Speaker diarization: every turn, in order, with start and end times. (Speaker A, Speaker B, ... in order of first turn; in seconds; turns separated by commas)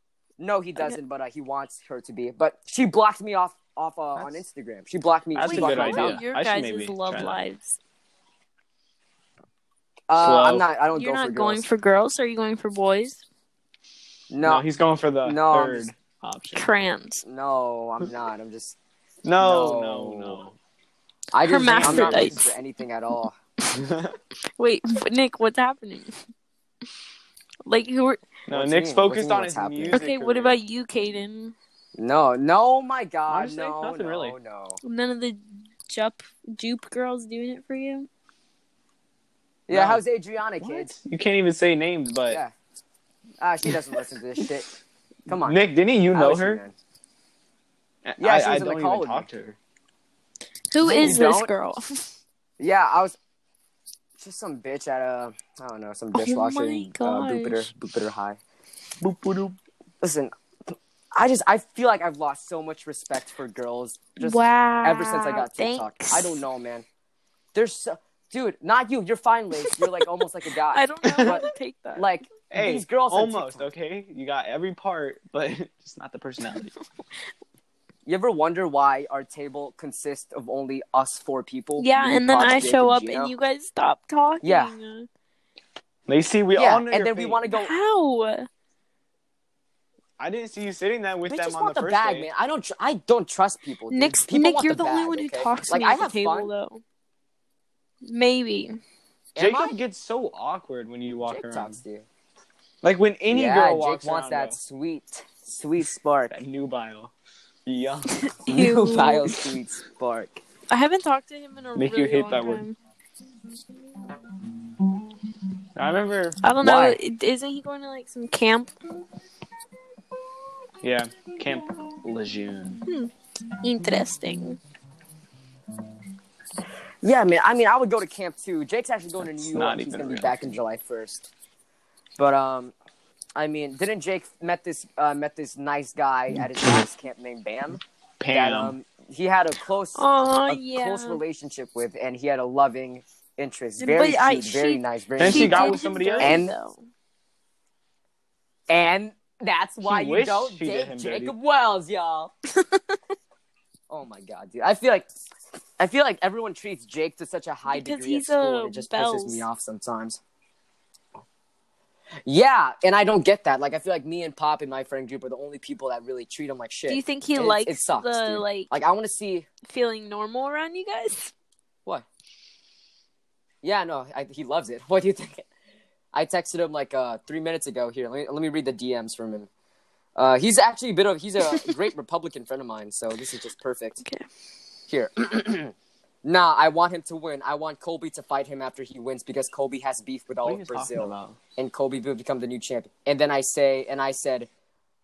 Speaker A: 0.4-6.2, Speaker B: 4.2-4.4, Speaker B: 5.3-7.4, Speaker C: 5.4-7.8, Speaker A: 10.1-11.7, Speaker B: 10.2-10.6, Speaker C: 10.9-13.2, Speaker A: 14.3-14.7, Speaker B: 14.4-16.7, Speaker A: 15.2-15.9, Speaker C: 16.6-17.2, Speaker A: 17.2-18.8, Speaker B: 19.2-20.6, Speaker A: 19.4-20.4, Speaker A: 21.3-23.4, Speaker C: 21.4-22.6, Speaker B: 21.8-22.3, Speaker B: 23.7-24.2, Speaker C: 24.6-26.2, Speaker C: 27.6-28.2, Speaker B: 28.5-30.6, Speaker A: 28.5-30.0, Speaker C: 29.9-31.6, Speaker A: 32.0-34.8, Speaker B: 33.3-34.4, Speaker C: 34.8-38.1, Speaker A: 39.7-40.9, Speaker B: 39.7-40.0, Speaker B: 40.6-42.4, Speaker A: 43.4-44.7, Speaker B: 43.6-44.0, Speaker A: 45.3-45.6, Speaker B: 45.3-46.6, Speaker A: 46.1-46.8, Speaker B: 48.0-49.6, Speaker A: 48.2-49.3, Speaker C: 50.7-52.1, Speaker A: 50.8-51.5, Speaker B: 50.9-51.2, Speaker A: 52.6-53.2, Speaker A: 54.2-58.4, Speaker C: 56.1-57.7, Speaker B: 59.0-59.6, Speaker A: 60.0-66.9, Speaker C: 64.2-66.4, Speaker A: 67.5-73.7, Speaker C: 69.7-70.1, Speaker C: 70.7-72.1, Speaker B: 71.0-71.5, Speaker B: 72.5-76.7, Speaker A: 78.1-83.3, Speaker C: 81.8-85.1, Speaker A: 84.4-84.7, Speaker B: 86.1-87.4, Speaker A: 86.5-87.7, Speaker C: 87.5-88.5, Speaker B: 90.2-92.3, Speaker A: 91.3-96.5, Speaker C: 93.9-96.8, Speaker C: 98.0-98.8, Speaker A: 99.4-99.8, Speaker B: 99.4-101.8, Speaker A: 101.2-102.1, Speaker B: 102.8-104.6, Speaker A: 103.3-106.4, Speaker B: 106.3-107.1, Speaker B: 107.7-108.2, Speaker C: 108.1-109.5, Speaker A: 108.5-110.4, Speaker C: 110.7-112.8, Speaker B: 111.8-112.6, Speaker B: 115.8-116.4, Speaker C: 116.4-118.7, Speaker A: 116.6-117.0, Speaker B: 120.8-122.8, Speaker C: 122.9-124.6, Speaker A: 127.0-131.3, Speaker B: 129.2-130.6, Speaker A: 132.2-132.7, Speaker A: 133.4-146.5, Speaker B: 136.3-136.9, Speaker B: 138.2-138.8, Speaker C: 140.0-141.2, Speaker C: 143.8-146.8, Speaker B: 145.2-146.5, Speaker A: 148.7-152.3, Speaker B: 149.8-151.3, Speaker C: 152.6-153.0, Speaker A: 153.9-155.1, Speaker A: 155.8-160.2, Speaker C: 157.7-159.4, Speaker A: 162.3-169.5, Speaker C: 166.9-168.7, Speaker C: 169.7-171.3, Speaker A: 173.6-175.5, Speaker A: 176.1-179.5, Speaker A: 180.2-184.0, Speaker A: 184.9-185.7, Speaker A: 186.2-194.5, Speaker B: 190.4-191.4